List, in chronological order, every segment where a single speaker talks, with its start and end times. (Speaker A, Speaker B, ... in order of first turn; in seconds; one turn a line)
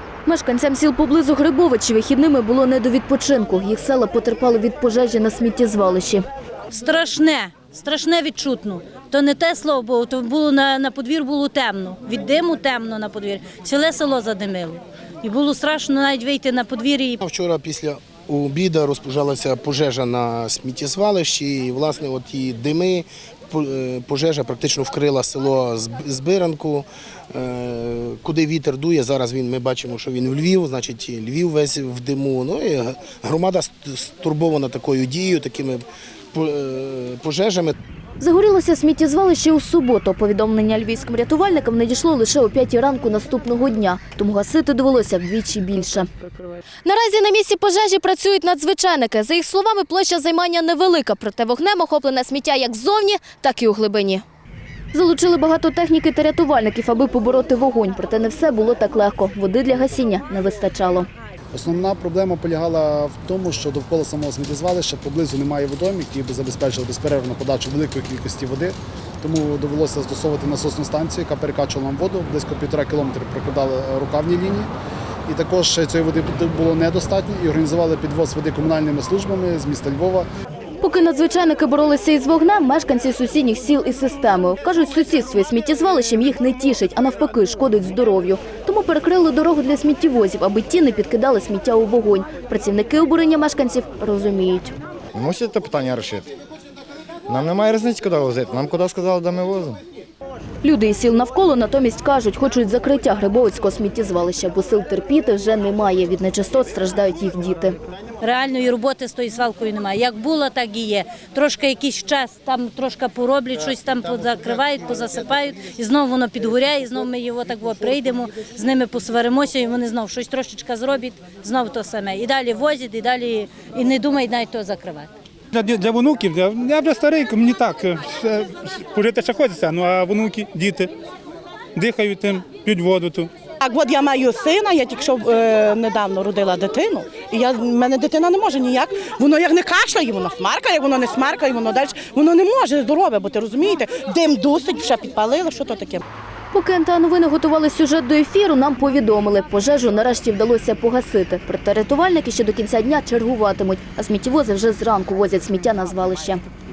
Speaker A: 0.2-6.2
Speaker B: 6.7-17.2
Speaker C: 17.2-37.8
Speaker A: 38.2-46.1
Speaker A: 46.8-54.2
Speaker A: 54.9-61.1
Speaker D: 61.5-74.7
Speaker D: 75.3-80.3
Speaker A: 80.8-94.7
Speaker E: 95.1-96.3
Speaker E: 97.3-99.8
Speaker A: 100.6-107.8
Speaker B: 108.2-125.1
Speaker F: 125.5-130.9
Speaker F: 131.8-133.3
Speaker G: 133.6-146.0
Speaker A: 146.5-156.4